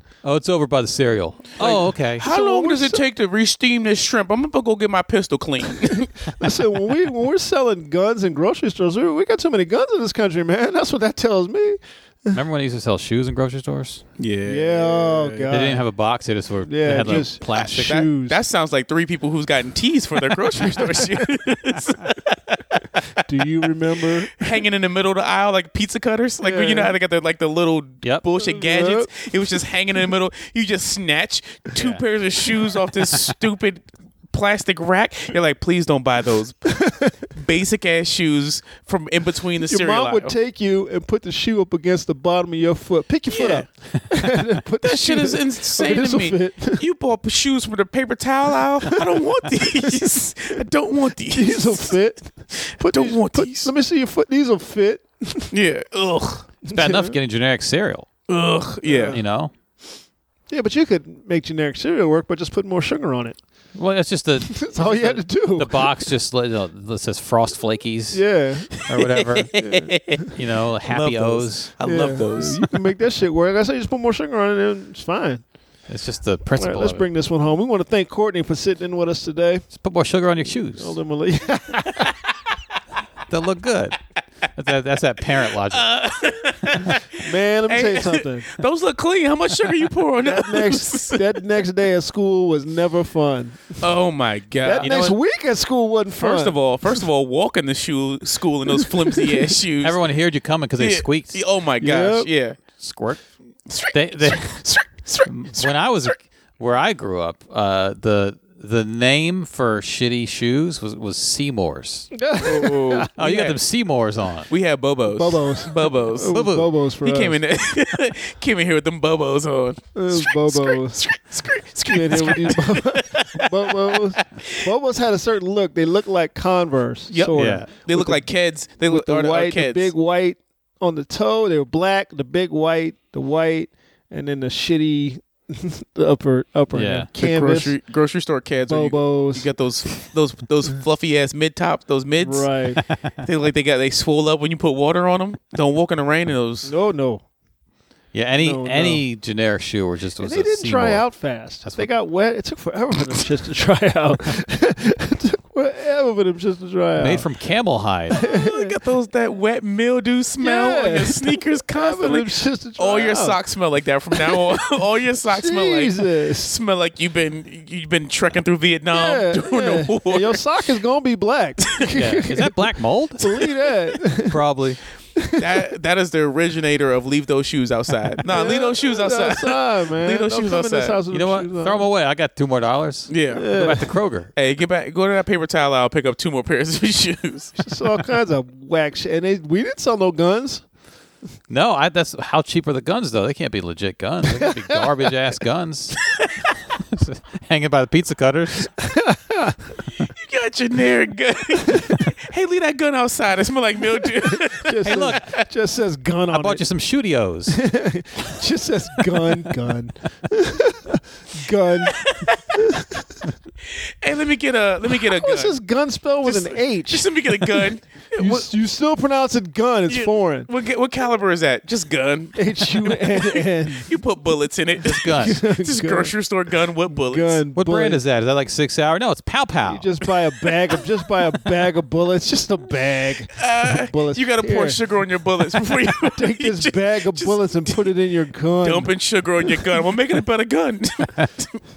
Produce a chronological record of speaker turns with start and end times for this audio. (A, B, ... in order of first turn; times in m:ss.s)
0:00.2-0:02.2 A
0:01.6-0:03.0 B
0:02.2-0:06.3 C
0:06.4-0:12.4 B
0:12.3-0:14.0 A
0:14.2-0:15.5 C
0:14.4-0:15.8 B
0:15.5-0:18.0 A
0:16.6-0:18.4 B
0:17.0-0:23.2 C
0:23.2-0:24.5 B
0:24.3-0:40.3 C
0:26.4-0:26.9 B
0:28.4-0:29.3 B
0:31.8-0:32.0 A
0:36.7-0:37.1 B
0:39.6-0:46.8 B
0:43.3-0:43.6 C
0:44.8-0:52.0 C
0:51.3-0:55.5 B
0:52.5-0:53.7 C
0:55.5-0:56.5 C
0:56.6-0:57.2 B
0:56.7-0:58.1 A
0:58.3-0:59.2 C
0:58.8-0:59.2 B
0:59.1-0:59.5 A
1:00.5-1:03.4 B
1:03.7-1:08.2 A
1:04.5-1:06.1 B
1:08.1-1:08.8 B
1:08.8-1:09.6 A
1:09.2-1:10.3 C
1:09.5-1:10.3 B
1:10.3-1:11.7 A
1:10.8-1:12.8 C
1:11.8-1:15.4 B
1:15.9-1:17.0 A
1:16.6-1:19.6 B
1:19.7-1:21.0 A
1:20.8-1:22.1 B
1:23.3-1:24.0 A
1:24.5-1:25.9 A
1:25.7-1:31.3 C
1:27.2-1:28.5 B
1:30.2-1:33.8 B
1:33.8-1:35.2 C
1:34.6-1:36.6 B
1:34.8-1:35.1 A
1:36.2-1:40.0 C
1:38.8-1:39.4 B
1:39.8-1:41.4 A
1:40.8-1:42.6 C
1:41.8-1:42.3 B
1:42.8-1:43.2 A
1:43.7-1:45.7 C
1:43.9-1:44.7 A
1:45.2-1:52.1 A
1:52.1-1:53.1 B
1:52.4-1:53.6 C
1:53.2-1:54.5 A
1:54.5-1:56.3 C
1:55.1-1:57.4 B
1:56.3-1:56.7 A
1:57.0-2:04.6 C
1:59.9-2:01.0 B
2:01.8-2:08.3 B
2:07.1-2:09.9 C
2:07.3-2:07.7 A
2:08.9-2:17.8 B
2:16.7-2:17.1 A
2:17.2-2:22.6 C
2:18.7-2:19.5 B
2:22.2-2:22.8 B
2:22.8-2:23.1 A
2:23.2-2:26.7 C
2:26.6-2:27.2 B
2:28.1-2:31.1 A
2:28.4-2:29.0 B
2:30.2-2:37.2 B
2:31.6-2:31.9 A
2:37.0-2:38.2 A
2:38.1-2:38.8 B
2:38.2-2:50.4 C
2:40.4-2:43.4 B
2:44.1-2:44.4 B
2:45.3-2:46.5 B
2:48.9-2:52.7 B
2:51.9-2:53.4 A
2:53.2-2:54.4 B
2:54.2-2:54.8 A
2:55.2-2:55.6 B
2:55.3-3:01.0 C
2:58.3-3:01.9 B
3:01.1-3:04.3 A
3:03.1-3:03.5 C
3:03.3-3:03.9 B
3:04.3-3:07.6 C
3:07.6-3:10.6 B
3:11.5-3:16.0 A
3:14.3-3:14.9 B
3:16.9-3:18.7 A
3:18.8-3:19.7 B
3:20.0-3:25.4 C
3:21.7-3:22.0 B
3:24.2-3:26.6 B
3:24.8-3:25.2 A
3:26.3-3:27.6 A
3:27.5-3:32.0 B
3:31.8-3:32.4 C
3:32.5-3:33.2 B
3:33.6-3:35.6 C
3:35.0-3:40.5 B
3:36.2-3:38.5 C
3:39.9-3:47.4 C
3:42.3-3:43.9 B
3:44.8-3:45.4 A
3:45.1-3:46.1 B
3:46.9-3:48.0 B
3:47.5-3:49.9 A
3:49.7-3:54.8 B
3:53.4-3:57.9 C
3:55.5-3:58.9 B
3:58.6-4:01.6 C